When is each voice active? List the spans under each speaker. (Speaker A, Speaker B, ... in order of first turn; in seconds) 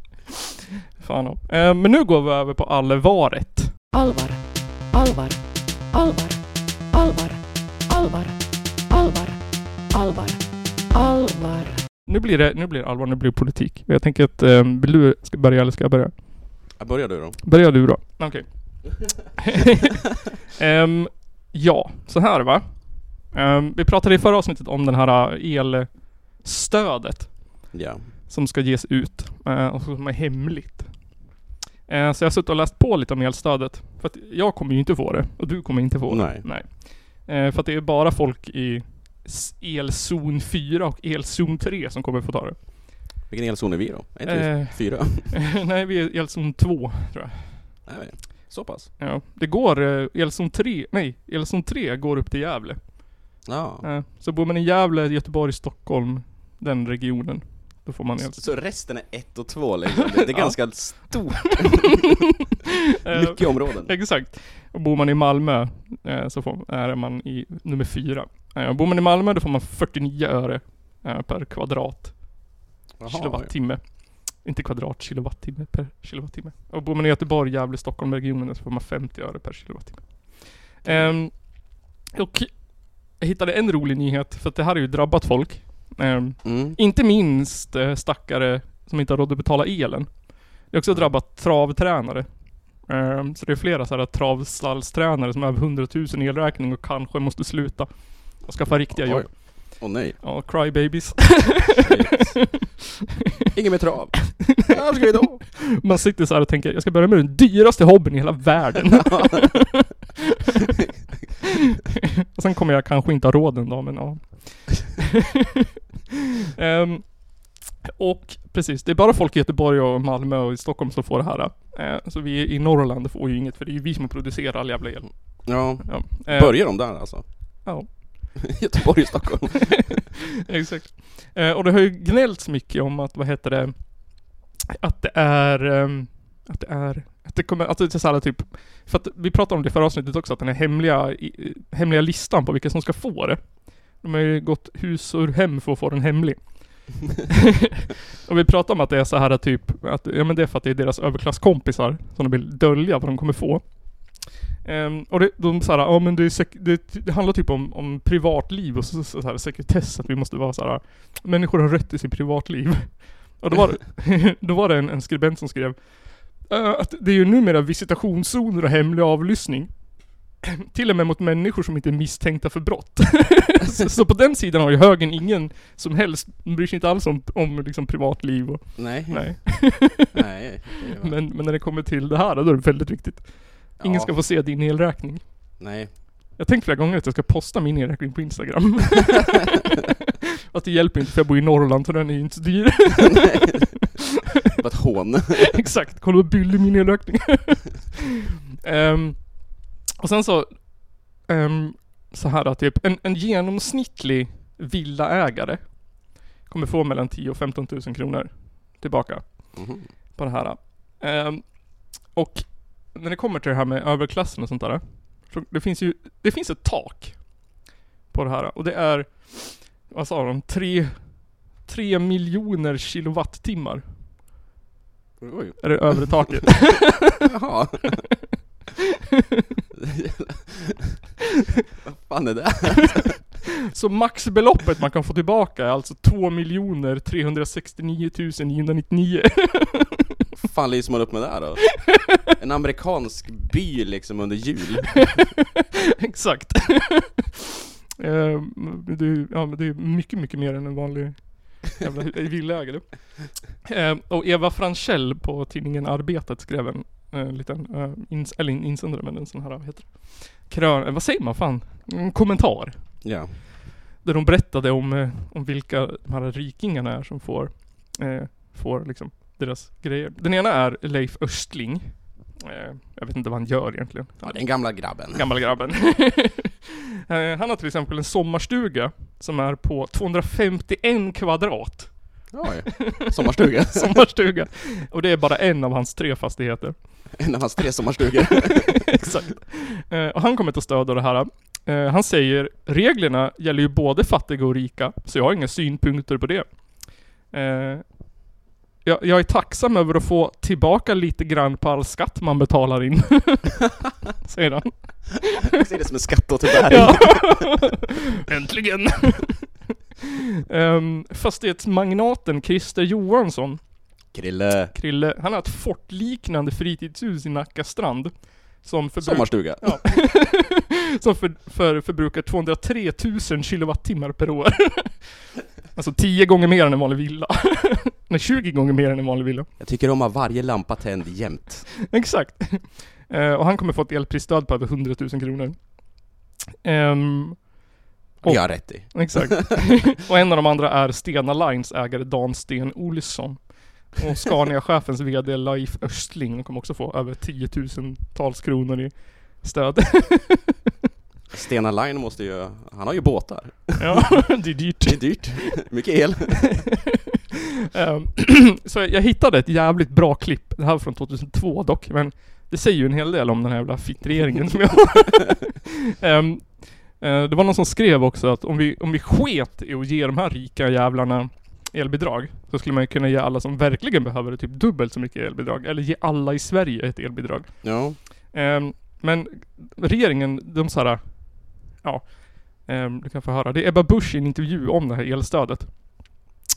Speaker A: 1.0-3.7, 12.1-16.1, 17.4-19.9, 20.6-27.7, 28.3-30.9, 31.9-42.6, 44.2-47.8, 49.0-58.5, 60.0-62.1, 63.0-72.4, 73.0-81.6, 82.1-92.3, 92.8-102.8, 104.4-104.7, 105.6-110.2, 112.3-115.1, 116.5-127.1, 127.6-128.4, 130.5-147.4, 148.2-169.7, 170.4-180.1, 181.0-185.2, 186.4-189.6, 190.5-193.8, 195.4-197.9, 198.6-209.6, 210.1-217.4, 218.1-221.1, 221.6-223.8, 225.6-227.2, 233.7-240.0, 246.0-247.2, 248.0-263.0, 264.0-282.3, 282.9-286.7, 288.4-296.6, 297.3-297.9, 298.8-303.6, 304.2-305.3, 306.7-309.5, 310.5-313.6, 314.7-325.1, 325.7-329.5, 331.9-336.1, 336.6-337.6, 338.2-350.5, 353.8-355.7, 357.7-386.2
Speaker B: 3.9-8.3, 8.9-9.4, 9.9-10.4, 10.9-11.8
Speaker C: 16.8-17.4, 27.7-28.1, 36.1-36.5, 43.3-45.4, 47.9-48.9, 53.4-53.9, 58.2-62.1, 63.0-63.9, 73.0-73.5, 80.8-81.1, 86.4-86.8, 98.7-100.2, 101.8-102.6, 103.5-105.4, 108.9-109.5, 125.4-127.6, 128.5-130.0, 178.8-181.2, 183.8-184.2, 185.6-185.9, 193.0-193.6, 194.5-195.6, 209.5-209.9, 225.2-228.0, 229.8-231.0, 231.8-233.2, 240.4-245.2, 263.0-263.3, 274.2-275.4, 282.3-284.0, 287.2-288.9, 305.5-307.6, 314.1-314.7, 319.0-319.8, 329.6-331.7, 338.2-339.4, 351.3-356.7, 377.6-378.0